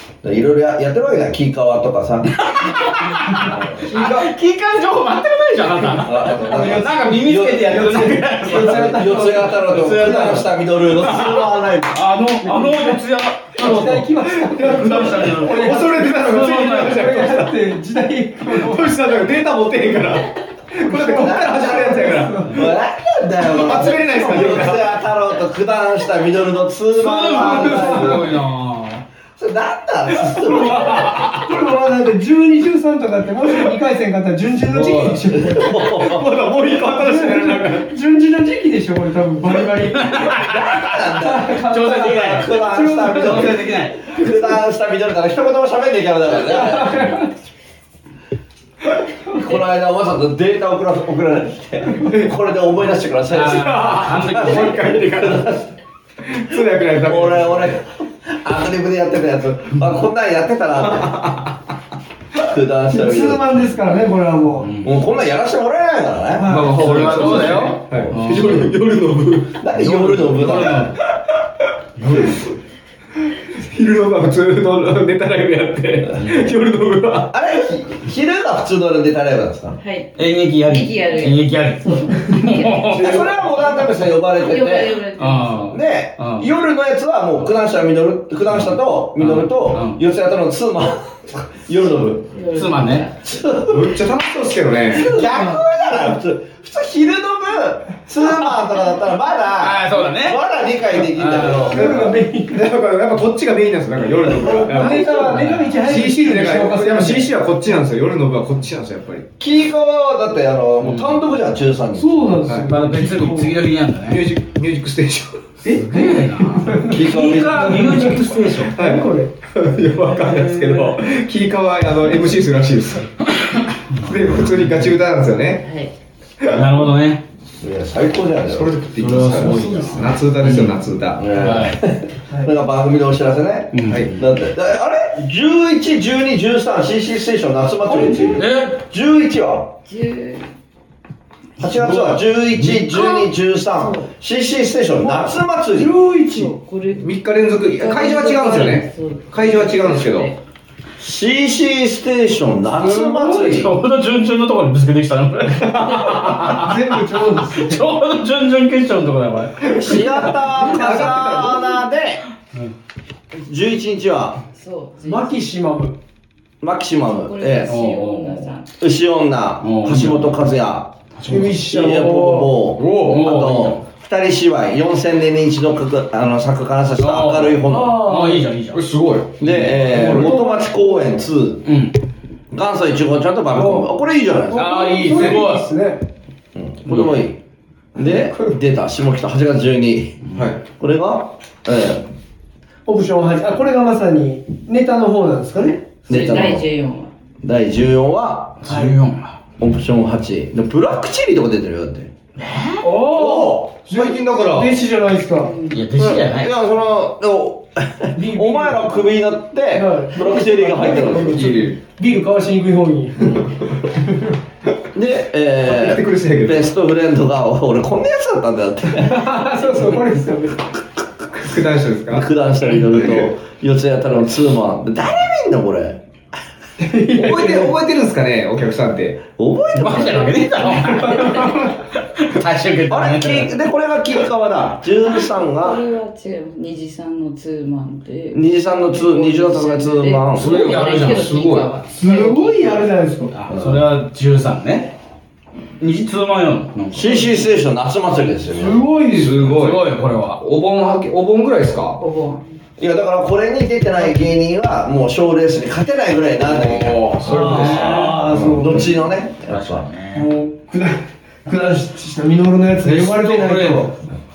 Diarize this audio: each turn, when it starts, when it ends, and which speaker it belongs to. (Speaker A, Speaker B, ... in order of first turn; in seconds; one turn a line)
Speaker A: 0.2-2.9
Speaker B: 2.3-17.1
Speaker A: 3.4-3.8
Speaker C: 3.8-4.3
Speaker A: 6.0-7.8
Speaker D: 6.3-10.4
Speaker A: 8.5-12.0
Speaker D: 12.4-19.0
Speaker C: 13.6-17.6
Speaker C: 18.5-22.6
Speaker D: 20.8-22.8
Speaker A: 21.0-28.4
Speaker D: 23.4-24.8
Speaker C: 23.5-24.9
Speaker B: 26.9-29.0
Speaker D: 27.3-28.2
Speaker A: 29.4-31.2
Speaker D: 30.4-35.9
Speaker B: 34.7-35.1
Speaker A: 35.3-36.3
Speaker C: 35.8-37.9
Speaker D: 36.7-40.5
Speaker B: 40.0-41.0
Speaker A: 40.2-47.1
Speaker D: 41.1-43.7
Speaker B: 41.5-44.0
Speaker D: 46.3-47.3
Speaker A: 49.3-55.6
Speaker C: 52.0-52.3
Speaker B: 53.3-55.6
Speaker C: 53.6-55.5
Speaker C: 56.2-57.8
Speaker A: 57.0-61.3
Speaker C: 61.0-61.5
Speaker A: 62.4-63.5
Speaker D: 62.9-64.7
Speaker B: 64.6-64.9
Speaker A: 64.8-68.7
Speaker D: 66.4-67.6
Speaker C: 66.5-71.3
Speaker B: 66.7-68.7
Speaker A: 69.6-70.9
Speaker B: 69.8-71.0
Speaker B: 72.0-72.4
Speaker C: 72.1-72.5
Speaker C: 73.5-77.3
Speaker B: 76.2-76.5
Speaker A: 77.3-79.8
Speaker E: 79.8-85.8
Speaker B: 80.2-83.5
Speaker A: 82.9-85.0
Speaker B: 85.2-86.5
Speaker A: 85.7-92.3
Speaker B: 88.5-90.0
Speaker E: 92.3-93.3
Speaker B: 92.5-93.1
Speaker A: 93.2-93.8
Speaker C: 93.6-95.1
Speaker D: 94.9-95.7
Speaker A: 95.0-102.1
Speaker B: 99.6-100.4
Speaker B: 100.9-101.9
Speaker D: 101.7-102.7
Speaker C: 101.8-109.3
Speaker D: 104.7-107.3
Speaker B: 105.0-105.7
Speaker A: 109.4-112.3
Speaker B: 110.8-111.3
Speaker D: 112.0-113.6
Speaker C: 112.4-112.7
Speaker B: 112.7-114.2
Speaker C: 114.1-115.5
Speaker D: 115.6-119.3
Speaker B: 115.7-118.7
Speaker A: 116.9-118.0
Speaker C: 117.2-123.1
Speaker D: 120.1-121.0
Speaker C: 123.9-125.7
Speaker E: 125.6-125.9
Speaker C: 126.4-126.7
Speaker B: 126.5-127.2
Speaker A: 127.6-128.7
Speaker C: 128.5-131.4
Speaker B: 129.0-131.8
Speaker D: 129.4-130.1
Speaker A: 131.2-139.8
Speaker B: 133.7-134.2
Speaker C: 133.9-134.1
Speaker D: 137.8-138.5
Speaker B: 138.4-138.8
Speaker E: 139.9-140.5
Speaker A: 141.6-145.9
Speaker B: 141.6-142.2
Speaker E: 143.8-144.0
Speaker D: 145.0-146.6
Speaker E: 146.3-150.4
Speaker C: 147.0-150.3
Speaker A: 151.0-153.8
Speaker D: 152.8-153.6
Speaker B: 153.0-160.2
Speaker C: 155.8-156.5
Speaker D: 156.1-157.9
Speaker C: 159.7-161.8
Speaker A: 159.7-162.2
Speaker D: 160.4-161.1
Speaker A: 163.3-164.4
Speaker E: 164.5-165.4
Speaker D: 165.0-166.0
Speaker A: 166.6-167.8
Speaker E: 167.0-168.7
Speaker B: 167.7-168.6
Speaker A: 168.8-178.0
Speaker B: 169.6-170.4
Speaker B: 171.2-171.6
Speaker D: 171.3-172.6
Speaker B: 172.8-173.8
Speaker C: 172.8-173.1
Speaker B: 177.0-180.1
Speaker D: 177.7-178.5
Speaker C: 178.7-180.4
Speaker A: 179.4-181.7
Speaker D: 179.9-181.2
Speaker B: 181.6-182.0
Speaker A: 182.5-185.4
Speaker D: 183.5-183.9
Speaker D: 184.4-186.0
Speaker B: 184.5-185.7
Speaker A: 186.6-187.4
Speaker B: 186.9-187.3
Speaker A: 188.0-192.1
Speaker D: 188.0-188.6
Speaker C: 190.3-190.6
Speaker D: 192.9-195.9
Speaker A: 196.1-196.7
Speaker E: 196.1-197.1
Speaker A: 197.4-198.6
Speaker B: 198.6-199.4
Speaker D: 198.7-199.0
Speaker A: 199.6-202.1
Speaker B: 202.4-202.9
Speaker D: 202.8-205.6
Speaker C: 203.0-204.8
Speaker E: 205.4-205.8
Speaker B: 205.7-206.5
Speaker A: 206.0-211.5
Speaker D: 208.1-209.1
Speaker D: 209.7-213.4
Speaker C: 211.2-211.8
Speaker D: 214.0-214.3
Speaker A: 214.9-219.3
Speaker C: 215.6-216.7
Speaker D: 218.9-220.7
Speaker C: 221.4-222.3
Speaker A: 222.1-226.0
Speaker D: 226.8-227.8
Speaker C: 227.1-229.3
Speaker A: 229.4-230.5
Speaker B: 229.7-233.5
Speaker D: 230.8-231.8
Speaker A: 232.9-235.8
Speaker E: 235.4-242.9
Speaker A: 238.3-240.7
Speaker B: 240.3-241.3
Speaker C: 240.5-241.8
Speaker D: 242.0-243.3
Speaker B: 243.3-244.9
Speaker A: 243.5-243.8
Speaker B: 245.8-247.4
Speaker A: 246.9-248.9
Speaker D: 248.6-249.5
Speaker C: 249.1-252.0
Speaker B: 249.4-250.4
Speaker E: 252.0-252.4
Speaker A: 252.8-259.9
Speaker B: 256.4-258.9
Speaker D: 257.2-258.9
Speaker B: 259.5-260.3
Speaker D: 260.1-264.0
Speaker B: 262.8-263.9